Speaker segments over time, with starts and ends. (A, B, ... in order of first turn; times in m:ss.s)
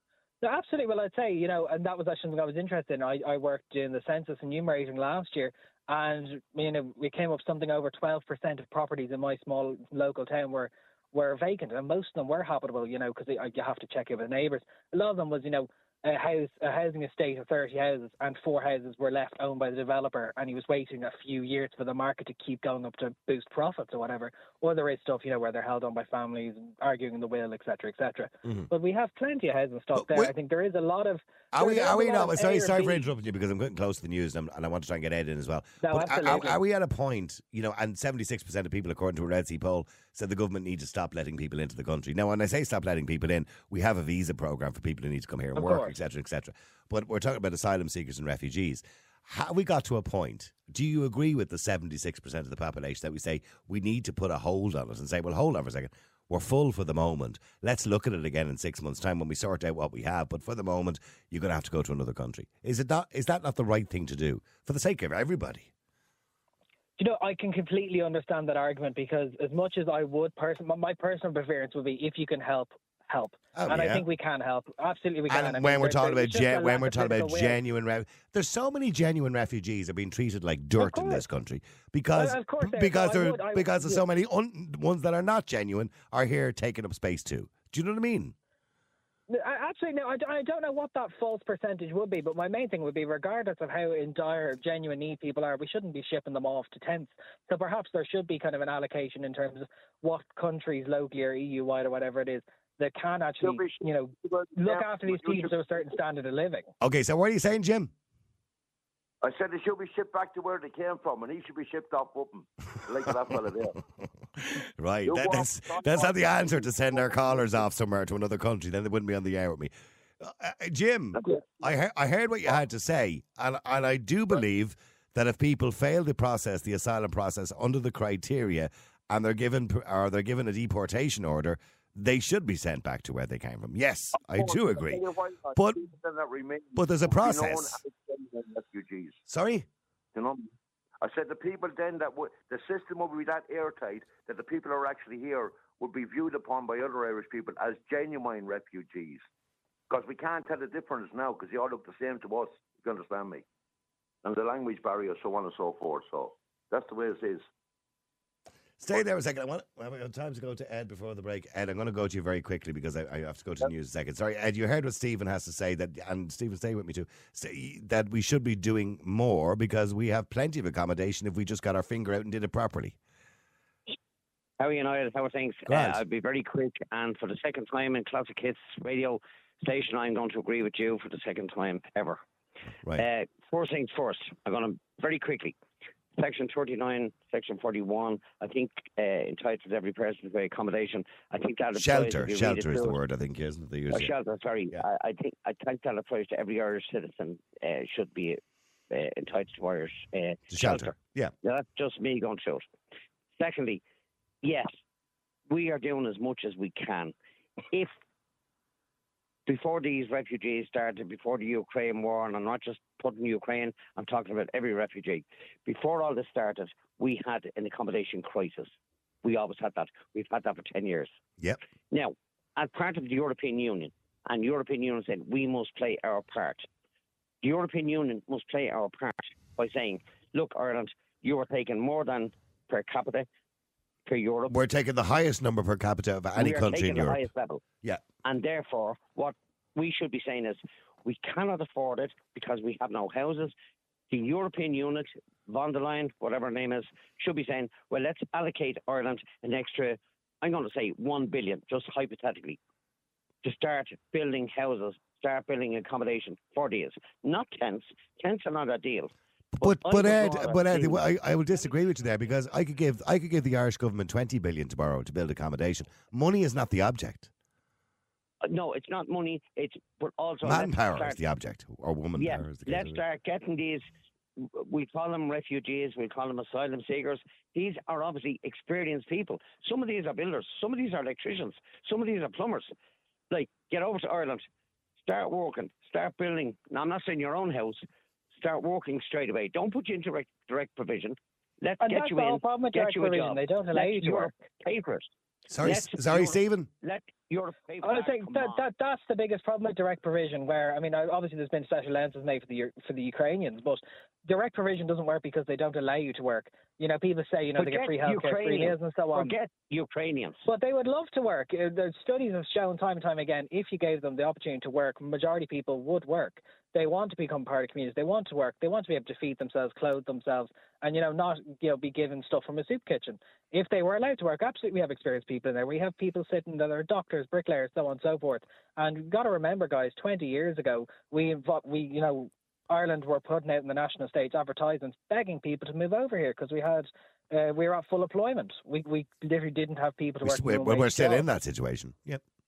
0:00.4-0:33.1 A
0:30.0-0:30.3 B
0:31.5-1:05.7 B
0:35.8-0:36.6 A
0:45.6-0:46.0 A
1:07.0-1:17.6 A
1:13.6-1:14.0 B
1:15.3-1:28.4 B
1:20.8-1:21.2 A
1:22.1-1:24.0 A
1:29.3-1:46.7 A
1:43.4-1:46.0 C
1:46.8-1:47.9 B
1:49.2-1:53.8 C
1:54.4-2:15.0 B
1:55.0-1:57.7 C
2:01.2-2:01.5 C
2:14.2-2:19.2 C
2:16.8-2:17.8 B
2:19.3-2:19.7 B
2:20.2-2:29.2 C
2:29.9-2:33.4 C
2:34.2-2:37.5 C
2:38.8-2:53.0 B
2:54.6-3:02.2 D
2:55.7-2:56.0 B
3:03.0-3:05.6 D
3:06.2-3:13.0 D
3:11.7-3:14.1 B
3:13.9-3:22.7 D
3:20.5-3:21.3 B
3:23.4-3:23.8 D
3:24.4-3:24.7 D
3:25.5-3:27.1 D
3:29.5-3:41.1 D
3:41.9-3:46.7 D
3:47.4-3:53.3 D
3:54.1-3:54.6 D
3:54.5-3:57.2 B
3:56.4-3:57.6 D
3:58.2-4:03.5 D
4:04.1-4:12.6 D
4:13.4-4:21.0 D
4:19.6-4:27.3 B
4:28.4-4:31.2 D
4:30.4-4:33.0 B
4:32.2-4:33.9 D
4:34.4-4:42.7 D
4:43.3-4:44.5 D
4:45.0-4:47.8 D
4:48.4-4:58.7 D
4:51.8-4:54.4 A
4:55.5-4:56.7 B
4:57.8-5:09.4 A
5:07.6-5:10.4 D
5:10.4-5:41.3 A
5:40.2-5:42.2 B